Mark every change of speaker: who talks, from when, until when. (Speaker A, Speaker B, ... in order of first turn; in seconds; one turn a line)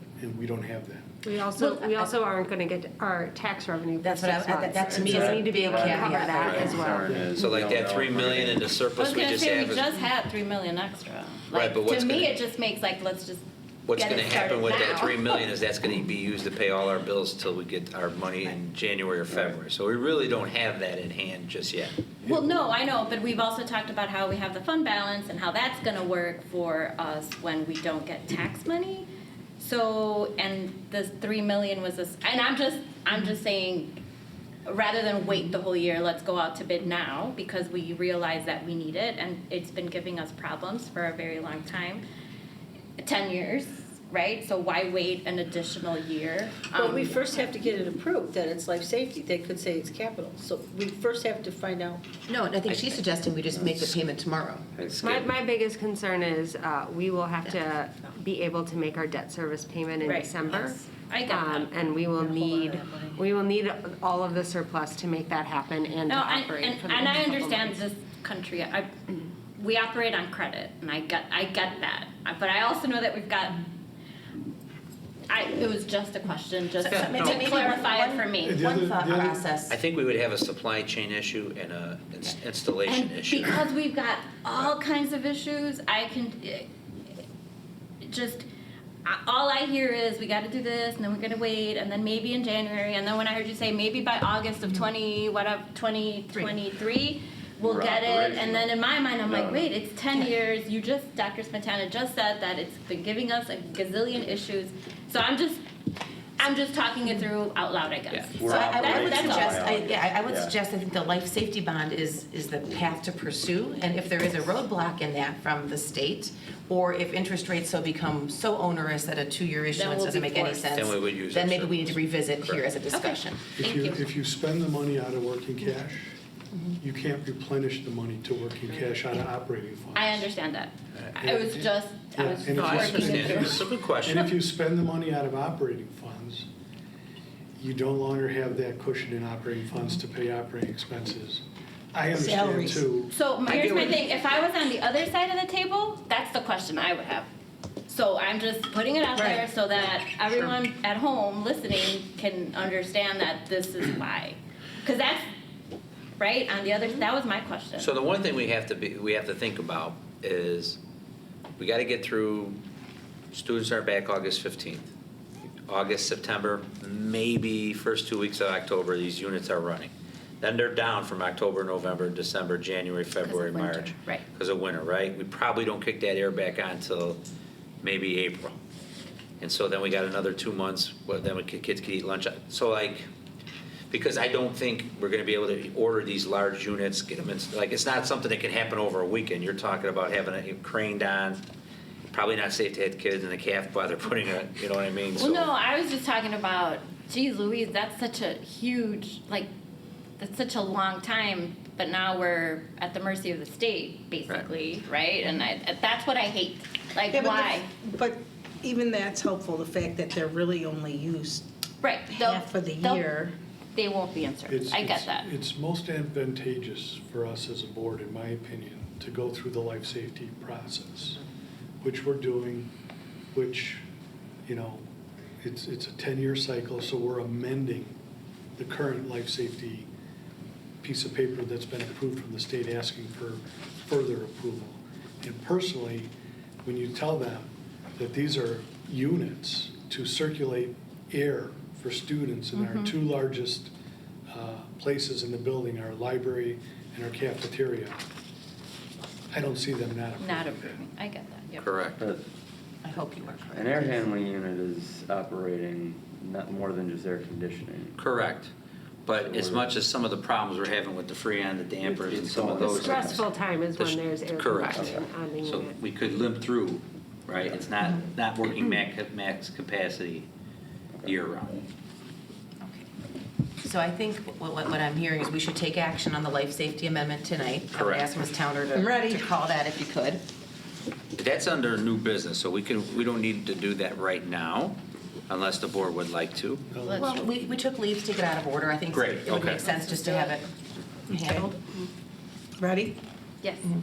Speaker A: 0.2-1.1
Speaker B: 1.2-7.4
Speaker C: 4.0-7.0
Speaker D: 4.9-8.7
Speaker E: 7.3-9.9
Speaker F: 9.0-13.4
Speaker E: 11.5-12.4
Speaker E: 13.9-22.1
Speaker F: 13.9-15.5
Speaker A: 22.2-22.7
Speaker F: 22.2-29.1
Speaker F: 29.6-34.0
Speaker F: 34.7-42.0
Speaker F: 43.0-47.4
Speaker G: 47.6-51.9
Speaker C: 52.3-54.7
Speaker D: 53.5-54.0
Speaker D: 54.8-55.2
Speaker E: 54.9-55.3
Speaker B: 55.0-67.8
Speaker F: 60.0-60.3
Speaker F: 60.9-61.7
Speaker C: 62.2-63.2
Speaker F: 66.1-73.7
Speaker F: 75.3-78.6
Speaker C: 76.8-79.8
Speaker E: 76.9-77.5
Speaker A: 78.4-79.4
Speaker E: 79.7-83.6
Speaker F: 82.8-86.7
Speaker F: 88.0-88.5
Speaker F: 89.0-105.6
Speaker D: 97.6-99.7
Speaker F: 106.4-109.7
Speaker D: 108.3-110.5
Speaker C: 108.4-123.4
Speaker F: 119.7-120.7
Speaker E: 120.7-122.7
Speaker F: 122.9-124.1
Speaker A: 123.6-126.2
Speaker A: 126.8-130.3
Speaker F: 129.9-133.6
Speaker A: 131.2-136.5
Speaker E: 132.5-134.3
Speaker A: 137.6-141.4
Speaker A: 141.9-143.1
Speaker H: 142.1-142.9
Speaker F: 143.1-147.3
Speaker E: 143.5-144.0
Speaker F: 147.9-155.3
Speaker H: 149.1-149.5
Speaker F: 156.2-157.9
Speaker E: 157.8-160.8
Speaker E: 161.6-162.6
Speaker E: 163.3-164.9
Speaker E: 165.7-177.2
Speaker F: 173.2-174.2
Speaker E: 177.8-178.6
Speaker E: 179.4-183.1
Speaker E: 183.9-191.4
Speaker E: 192.1-195.5
Speaker F: 195.2-199.5
Speaker F: 200.2-207.7
Speaker H: 207.1-211.5
Speaker F: 211.8-213.0
Speaker H: 212.1-213.4
Speaker F: 213.8-215.3
Speaker A: 214.5-221.2
Speaker A: 221.8-222.7
Speaker A: 223.3-223.8
Speaker A: 224.5-224.8
Speaker A: 225.4-228.0
Speaker A: 228.6-229.9
Speaker A: 230.8-236.1
Speaker A: 236.6-243.7
Speaker F: 242.5-243.0
Speaker A: 244.3-248.0
Speaker A: 249.3-250.8
Speaker F: 250.2-251.8
Speaker E: 251.6-252.0
Speaker D: 252.0-252.3
Speaker C: 252.8-254.1
Speaker D: 253.5-258.0
Speaker E: 258.0-258.5
Speaker E: 259.1-270.3
Speaker D: 259.2-259.7
Speaker D: 261.8-263.2
Speaker B: 262.6-265.8
Speaker E: 271.0-271.6
Speaker C: 273.6-280.2
Speaker E: 277.7-278.1
Speaker H: 278.7-279.2
Speaker E: 281.2-284.8
Speaker E: 285.3-286.6
Speaker A: 286.7-287.1
Speaker F: 286.8-287.2
Speaker C: 286.9-290.5
Speaker E: 288.9-289.7
Speaker C: 291.1-291.5
Speaker H: 291.1-291.5
Speaker H: 292.6-293.0
Speaker F: 293.4-293.7